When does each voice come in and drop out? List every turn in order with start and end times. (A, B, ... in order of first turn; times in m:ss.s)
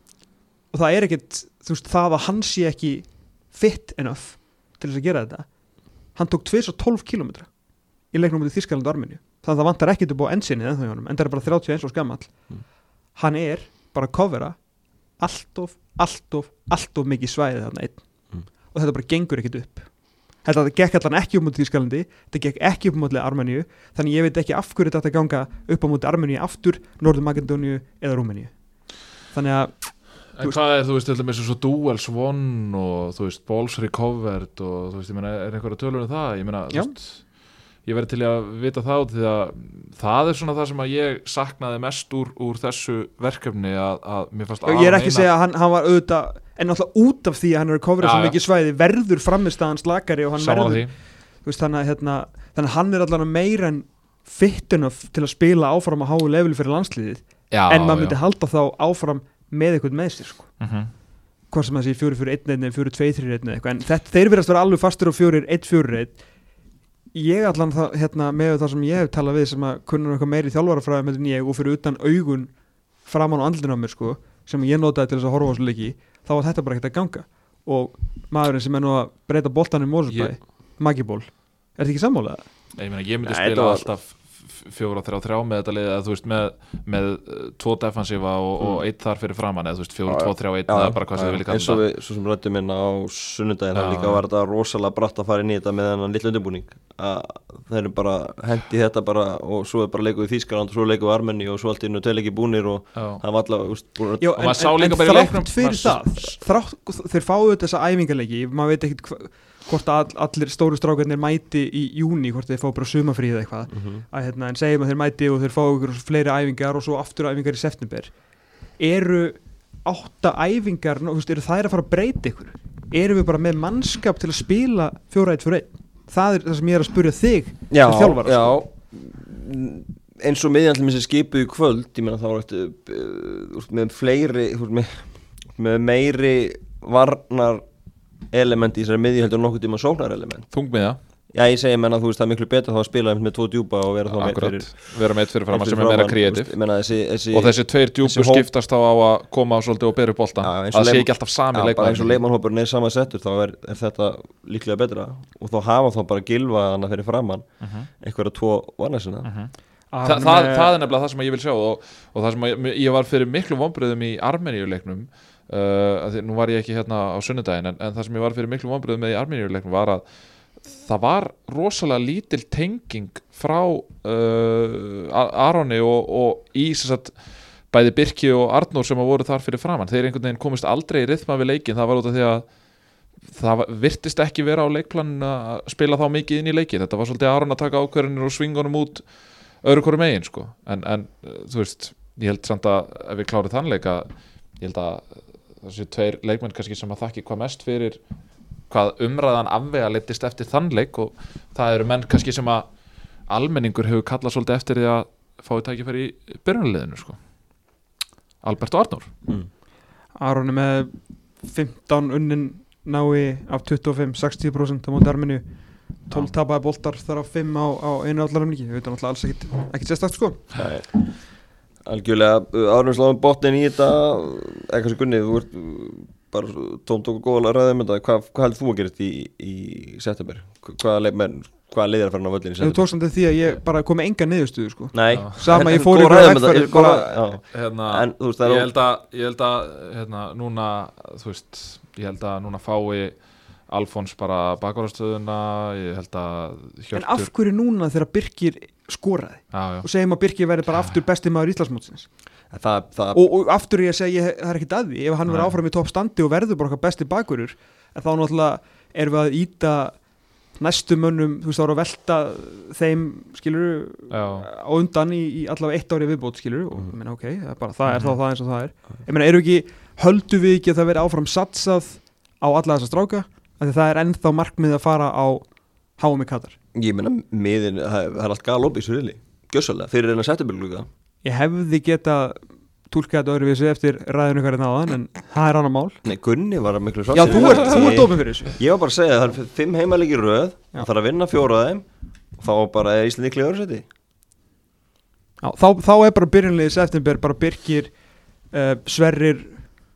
0:00.7-0:05.5 A
0:06.0-0:07.5 A
0:08.1-0:12.5 A
0:13.1-0:14.6 A
0:15.2-0:28.5 A
0:29.1-0:30.6 A
0:30.3-0:37.3 B
0:37.8-0:45.3 B
0:44.6-1:00.6 A
0:48.0-0:48.4 B
0:50.4-0:50.9 B
0:57.5-0:58.2 B
1:00.6-1:00.9 B
1:01.5-1:06.2 A
1:07.1-1:12.5 A
1:13.0-1:22.4 A
1:22.8-1:31.8 B
1:23.2-1:23.9 C
1:30.1-1:44.4 C
1:33.7-1:34.2 B
1:42.9-1:43.2 B
1:44.2-1:58.1 A
1:44.4-1:46.4 B
1:53.7-1:54.0 C
1:58.8-2:08.5 A
2:07.7-2:17.6 C
2:18.3-2:20.5 C
2:20.5-2:21.0 B
2:21.3-2:28.5 C
2:24.1-2:26.6 B
2:27.3-2:32.2 B
2:30.4-2:39.3 C
2:37.6-2:37.9 B
2:39.2-3:02.6 B
2:39.9-2:40.7 A
3:03.1-3:18.0 B
3:18.7-3:27.2 B
3:28.4-3:29.1 B
3:30.2-3:35.4 A
3:36.0-3:40.5 A
3:40.6-3:41.3 C
3:41.8-3:52.9 C
3:52.6-3:57.2 A
3:54.9-3:58.7 C
3:55.1-3:55.4 B
3:57.5-4:07.3 B
4:06.9-4:12.1 A
4:09.5-4:09.9 B
4:12.5-4:13.2 C
4:13.1-4:36.6 A
4:15.3-4:15.5 B
4:24.1-4:24.5 B
4:27.8-4:28.2 B
4:36.7-4:40.9 C
4:41.2-4:46.0 A
4:46.0-4:53.9 C
4:47.1-4:48.6 A
4:55.4-4:59.8 A